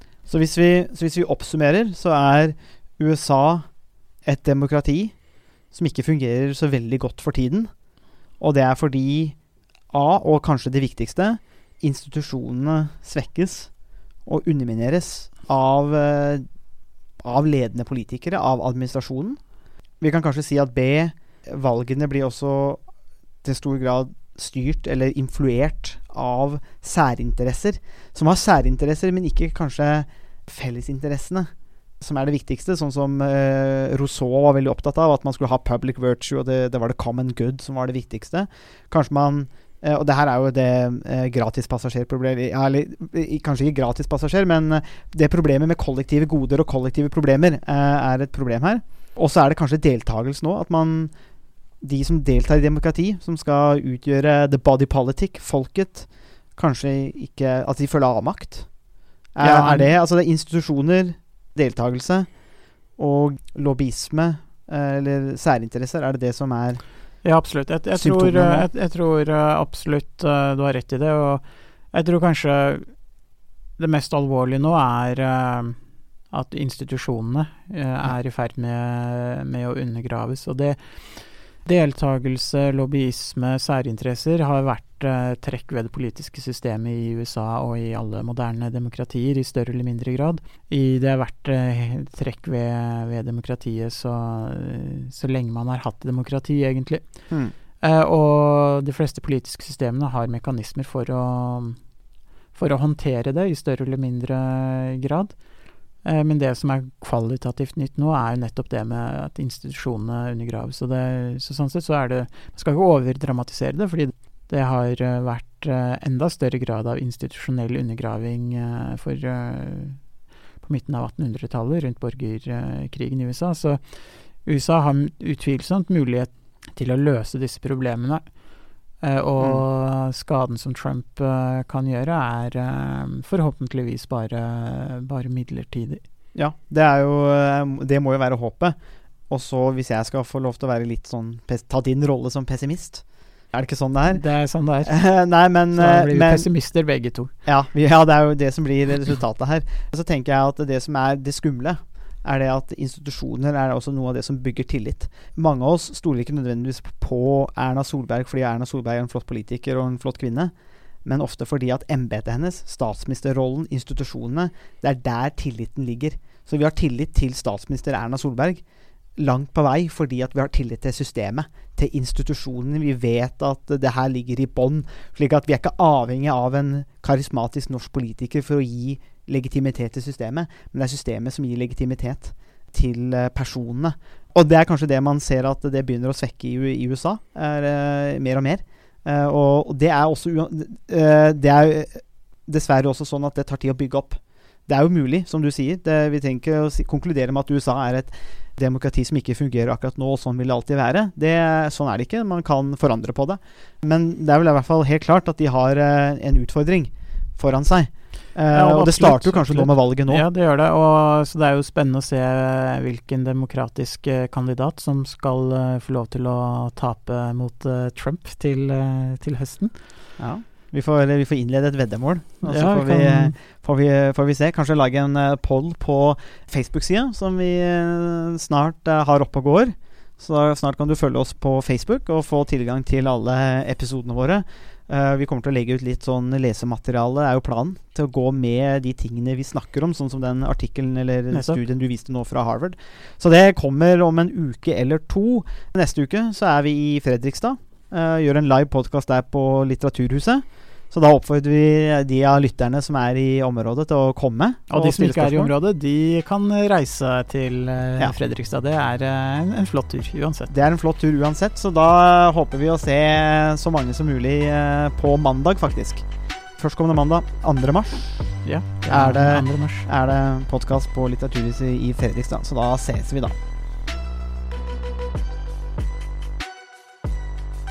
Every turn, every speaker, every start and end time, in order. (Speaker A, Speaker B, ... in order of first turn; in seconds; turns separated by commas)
Speaker A: 0.3-3.7, Speaker A: 4.2-5.1, Speaker A: 5.7-7.7, Speaker A: 8.4-9.4, Speaker A: 9.9-13.7, Speaker A: 14.2-16.4, Speaker A: 17.2-19.4, Speaker A: 20.0-22.8, Speaker A: 23.4-51.1, Speaker A: 51.8-58.7, Speaker A: 59.3-62.3, Speaker B: 59.4-59.9, Speaker A: 63.0-66.8, Speaker B: 67.2-72.8, Speaker A: 67.9-68.7, Speaker B: 73.8-75.8, Speaker B: 76.3-97.0, Speaker B: 97.8-101.8, Speaker B: 102.5-105.3, Speaker B: 106.0-120.0, Speaker B: 120.6-128.2, Speaker B: 129.0-136.0, Speaker A: 136.3-138.8, Speaker A: 139.3-144.2, Speaker B: 144.1-145.0, Speaker A: 144.8-146.5, Speaker B: 145.7-147.3, Speaker A: 147.4-160.5, Speaker A: 161.0-168.6, Speaker A: 169.2-210.2, Speaker B: 208.5-219.8, Speaker A: 220.2-255.5, Speaker B: 222.4-223.3, Speaker B: 241.3-241.6, Speaker B: 254.7-260.5, Speaker A: 260.5-268.3, Speaker B: 268.4-269.9, Speaker A: 268.9-273.4